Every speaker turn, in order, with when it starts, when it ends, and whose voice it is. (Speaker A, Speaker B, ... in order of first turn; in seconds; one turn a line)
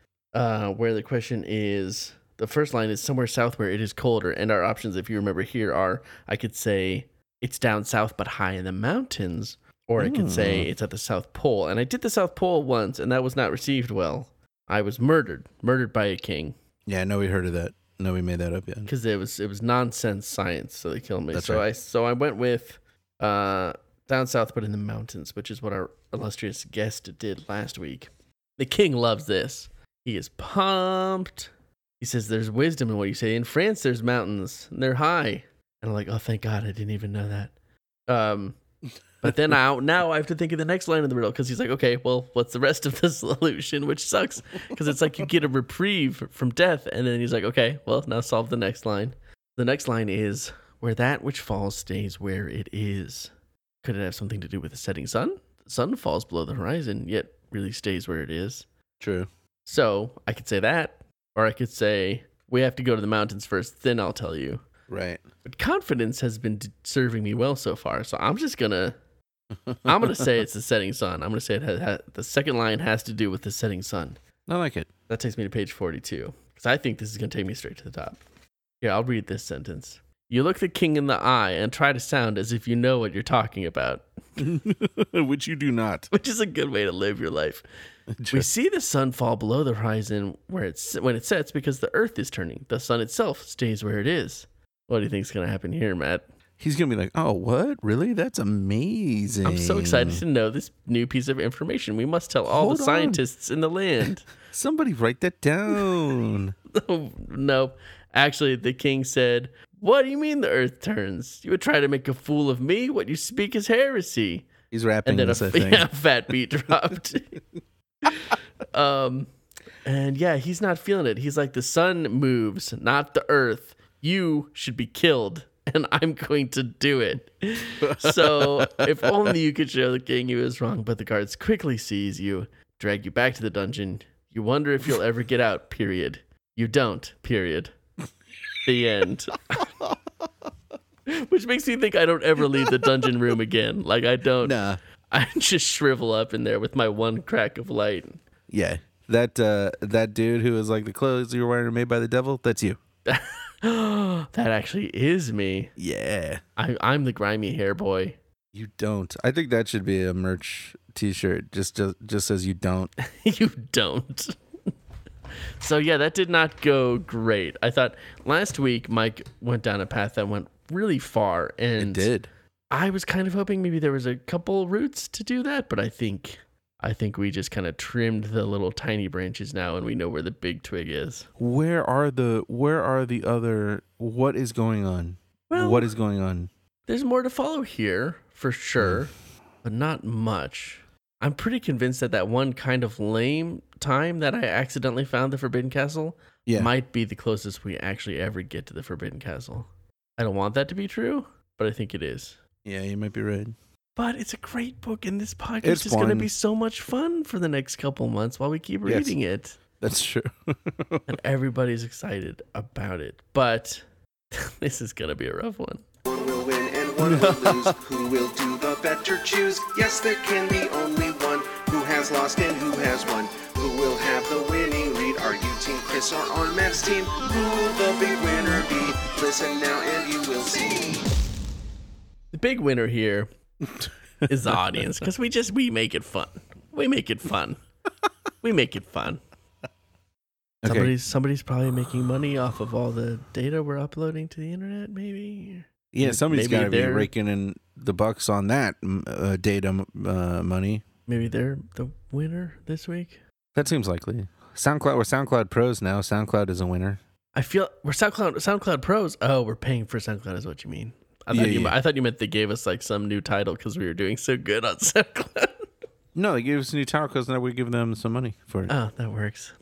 Speaker A: 0.3-16.6
Speaker B: 10.0-10.7
Speaker B: 16.9-18.9
Speaker A: 18.9-37.5
Speaker B: 21.3-21.6
Speaker A: 38.1-38.6
Speaker A: 39.2-53.3
Speaker A: 53.8-58.6
Speaker B: 59.0-59.3
Speaker A: 59.6-64.6
Speaker B: 64.9-65.2
Speaker A: 65.4-68.9
Speaker B: 69.7-70.2
Speaker A: 69.8-74.2
Speaker B: 74.5-74.9
Speaker A: 75.1-78.2
Speaker A: 78.8-84.0
Speaker B: 84.4-86.1
Speaker A: 86.1-87.6
Speaker B: 88.2-88.5
Speaker A: 88.3-96.2
Speaker B: 96.6-100.2
Speaker A: 99.4-104.3
Speaker B: 102.5-103.2
Speaker B: 104.5-106.5
Speaker A: 106.7-114.5
Speaker B: 114.7-115.9
Speaker A: 115.0-117.4
Speaker A: 118.1-119.3
Speaker A: 119.8-137.7
Speaker B: 127.8-129.3
Speaker A: 138.6-139.7
Speaker A: 141.1-144.6
Speaker B: 144.4-144.8
Speaker A: 145.1-148.2
Speaker B: 148.5-152.8
Speaker A: 153.1-155.7
Speaker B: 155.8-156.4
Speaker A: 156.6-158.2
Speaker B: 158.5-162.9
Speaker A: 163.0-164.4
Speaker A: 165.6-172.1
Speaker B: 171.8-172.3
Speaker A: 172.7-181.3
Speaker B: 181.4-186.5
Speaker A: 185.5-185.9
Speaker A: 186.9-189.1
Speaker B: 188.8-189.0
Speaker A: 189.6-202.4
Speaker B: 196.4-196.7
Speaker B: 202.6-203.6
Speaker A: 204.0-209.6
Speaker B: 205.6-206.3
Speaker B: 208.8-209.1
Speaker B: 209.8-211.1
Speaker A: 211.1-215.8
Speaker C: 216.1-231.1
Speaker B: 217.0-217.8
Speaker A: 232.3-233.3
Speaker A: 234.3-237.6
Speaker A: 238.4-239.2
Speaker B: 240.6-240.9
Speaker A: 240.6-247.1
Speaker B: 245.9-250.8
Speaker A: 251.1-253.2
Speaker B: 253.6-257.0
Speaker A: 257.3-265.6
Speaker B: 261.3-261.8
Speaker B: 266.1-268.7
Speaker A: 268.7-269.5